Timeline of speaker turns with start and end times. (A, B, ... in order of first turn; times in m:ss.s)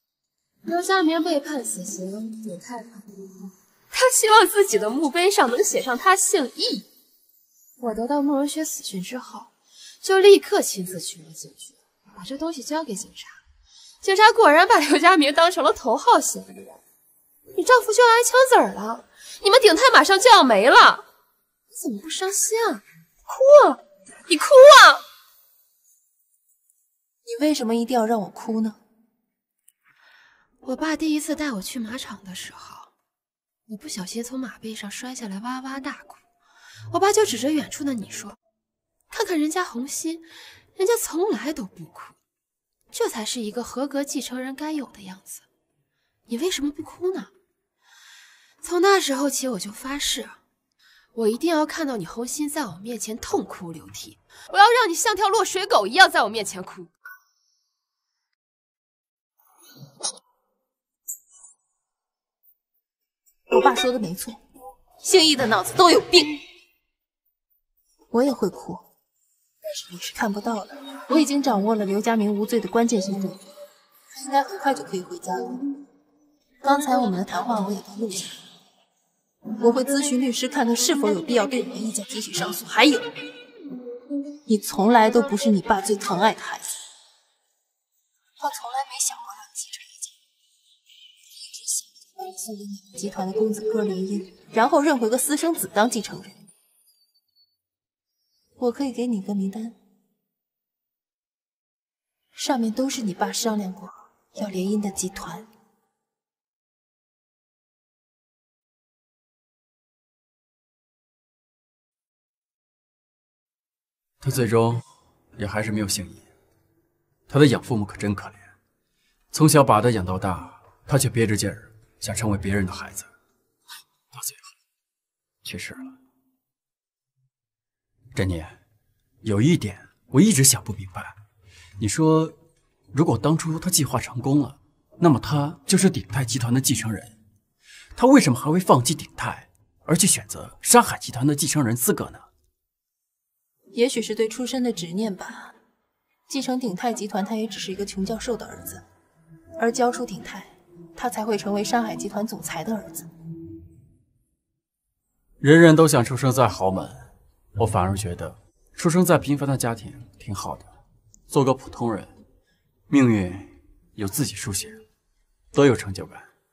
0:00.6-0:06.8 A
0:07.8-0:09.5 A
0:10.0-0:13.4 A
0:14.0-0:16.8 A
0:17.5-0:21.0 A
0:21.7-0:25.0 A
0:27.2-0:28.8 B
0:30.6-0:32.9 A
0:33.7-0:36.2 A
0:36.9-0:38.4 A
0:39.1-0:42.1 A
0:42.9-0:45.4 A
0:46.3-0:47.3 A
0:48.6-0:50.4 A
0:51.1-0:56.9 A
1:03.5-1:04.4 B
1:05.0-1:06.4 B
1:08.1-1:08.8 B
1:09.6-1:13.4 B
1:14.1-1:15.8 B
1:16.6-1:18.4 B
1:19.6-1:23.1 B
1:24.4-1:26.8 B
1:28.4-1:30.1 B
1:31.5-1:36.4 B
1:38.6-1:39.7 B
1:42.4-1:45.5 B
1:54.2-1:54.8 C
1:55.4-1:56.2 C
1:57.3-1:58.5 C
1:59.3-2:03.1 C
2:04.1-2:04.5 C
2:05.4-2:05.9 C
2:08.1-2:08.6 C
2:09.2-2:11.2 C
2:11.8-2:12.4 C
2:12.9-2:17.1 C
2:17.9-2:22.2 C
2:23.7-2:25.5 B
2:26.3-2:28.8 B
2:29.6-2:33.1 B
2:35.4-2:40.7 C
2:41.3-2:42.2 C
2:42.9-2:44.8 C
2:45.5-2:46.3 C